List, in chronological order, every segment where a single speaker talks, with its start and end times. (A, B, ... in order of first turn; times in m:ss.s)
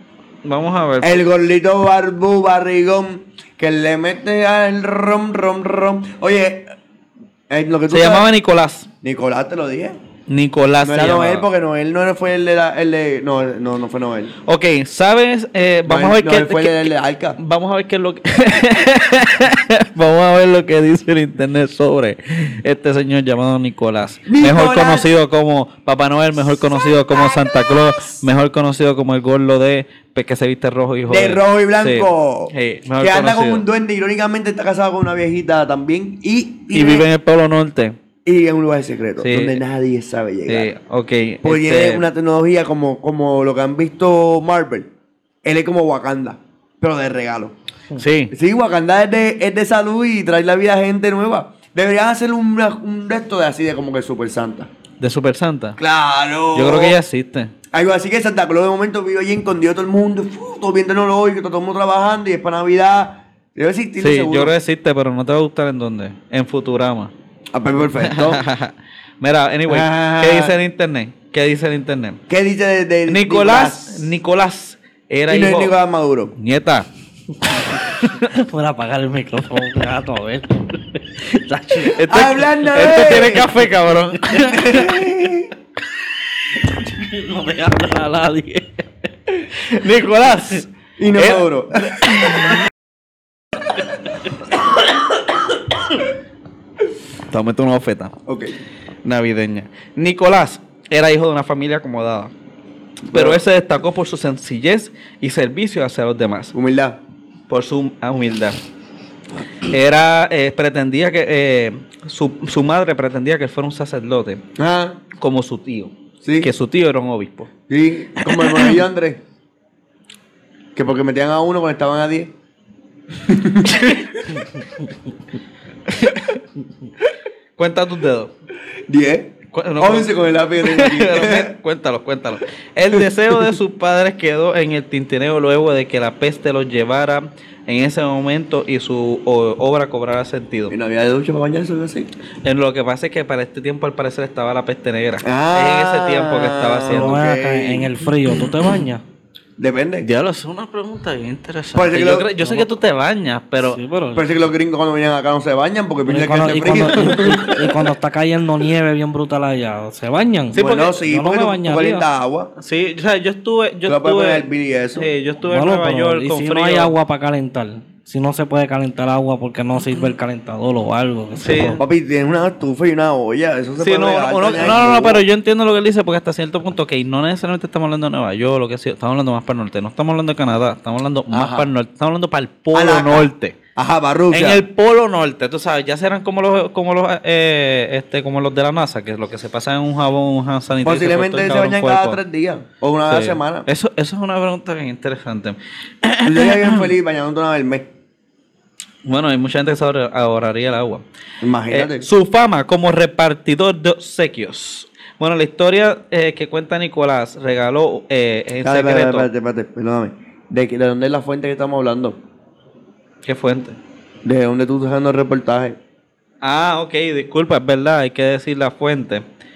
0:00.4-0:01.2 A
0:01.0-0:06.7 B
0:07.5-0:08.3 B
0:07.9-0:08.9 A
0:09.0-0:10.0 B
0:10.3-0:11.5 A
0:10.8-0:14.3 B
0:14.4-0:33.6 A
0:15.8-0:17.4 B
0:24.2-0:25.1 B
0:31.1-0:37.1 B
0:36.7-0:38.0 A
0:38.2-0:40.7 B
0:39.2-0:39.6 A
0:40.5-0:42.0 A
0:41.4-0:44.9 B
0:45.4-0:47.5 B
0:48.0-0:48.3 A
0:48.3-0:54.7 B
0:55.0-0:55.8 A
0:55.8-0:57.0 B
0:56.5-0:57.5 A
0:57.7-1:04.5 B
1:04.0-1:07.1 A
1:07.5-1:08.4 B
1:08.0-1:12.2 A
1:09.7-1:10.6 B
1:12.3-1:14.1 B
1:13.1-1:15.7 A
1:15.3-1:16.3 B
1:16.4-1:16.9 A
1:17.7-1:22.1 C
1:17.8-1:18.1 A
1:21.8-1:25.0 A
1:22.0-1:23.6 B
1:24.6-1:25.5 B
1:26.6-1:28.8 C
1:29.5-1:32.6 A
1:31.0-1:32.6 B
1:37.3-1:38.1 A
1:38.2-1:38.6 B
1:39.0-1:42.3 A
1:43.1-1:43.4 B
1:43.1-1:46.5 A
1:46.5-1:47.0 B
1:47.5-1:48.6 A
1:49.7-1:54.4 A
1:54.6-1:55.0 B
1:55.2-1:57.5 A
1:56.2-1:56.5 B
1:57.7-1:59.2 B
1:58.2-1:58.8 A
2:00.7-2:02.3 B
2:03.2-2:04.0 B
2:03.7-2:04.1 A
2:05.9-2:06.4 A
2:07.6-2:08.3 A
2:08.9-2:11.5 B
2:09.5-2:20.7 A
2:20.7-2:22.1 B
2:22.4-2:27.2 A
2:25.2-2:27.9 B
2:26.9-2:29.0 C
2:29.6-2:30.1 B
2:30.0-2:33.8 A
2:31.7-2:32.4 B
2:33.6-2:34.3 C
2:34.1-2:37.6 B
2:36.0-2:42.0 C
2:36.9-2:37.8 A
2:40.5-2:41.0 A
2:40.5-2:42.5 B
2:42.6-2:46.9 A
2:43.9-2:45.1 B
2:45.5-2:51.8 C
2:51.4-2:51.8 A
2:51.8-2:55.2 B
2:53.8-3:03.5 A
3:01.3-3:01.7 B
3:02.7-3:04.6 B
3:04.3-3:12.2 A
3:10.8-3:13.7 B
3:13.1-3:16.9 A
3:16.2-3:17.9 B
3:19.0-3:21.0 A
3:21.4-3:22.1 B
3:21.7-3:29.3 A
3:28.6-3:32.2 B
3:33.2-3:33.8 A
3:34.2-3:35.8 B
3:36.4-3:39.2 A